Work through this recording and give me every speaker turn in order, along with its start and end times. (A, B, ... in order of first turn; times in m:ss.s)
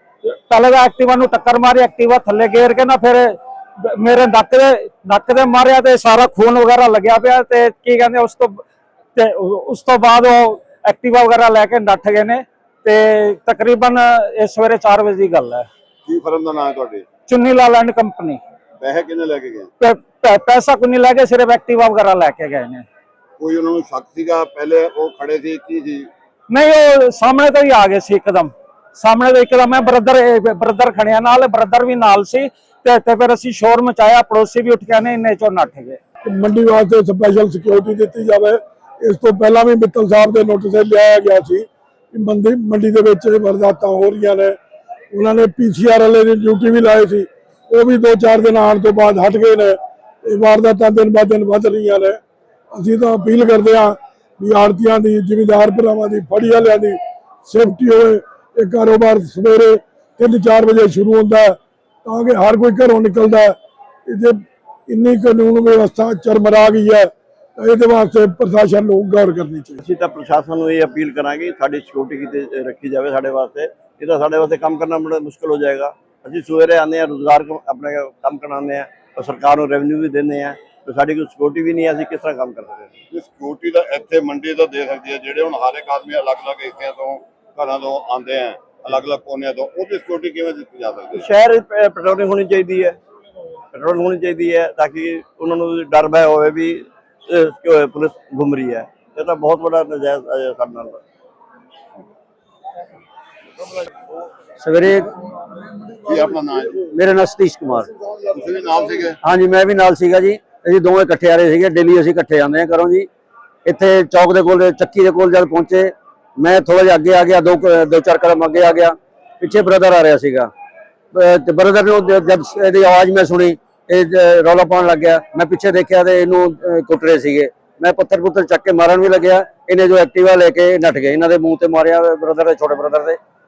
0:00.5-0:08.6 A
0:09.2-0:15.7 A
0:16.0-0:17.1 B
0:17.3-0:18.4 A
0:18.8-0:19.7 B
0:19.8-0:22.8 A
0:23.4-0:26.1 B
0:26.5-0:36.0 A
0:36.3-0:44.6 C
0:45.1-0:52.2 C
0:52.7-1:03.6 C
1:04.1-1:09.8 C
1:09.8-1:22.9 D
1:23.1-1:31.2 B
1:31.2-1:33.0 D
1:33.7-1:36.8 D
1:37.3-1:41.0 D
1:44.6-1:45.1 E
1:46.0-1:46.8 B
1:46.8-1:47.9 E
1:48.2-1:49.2 B
1:49.2-1:53.1 E
1:53.6-2:00.5 E
2:01.1-2:13.2 E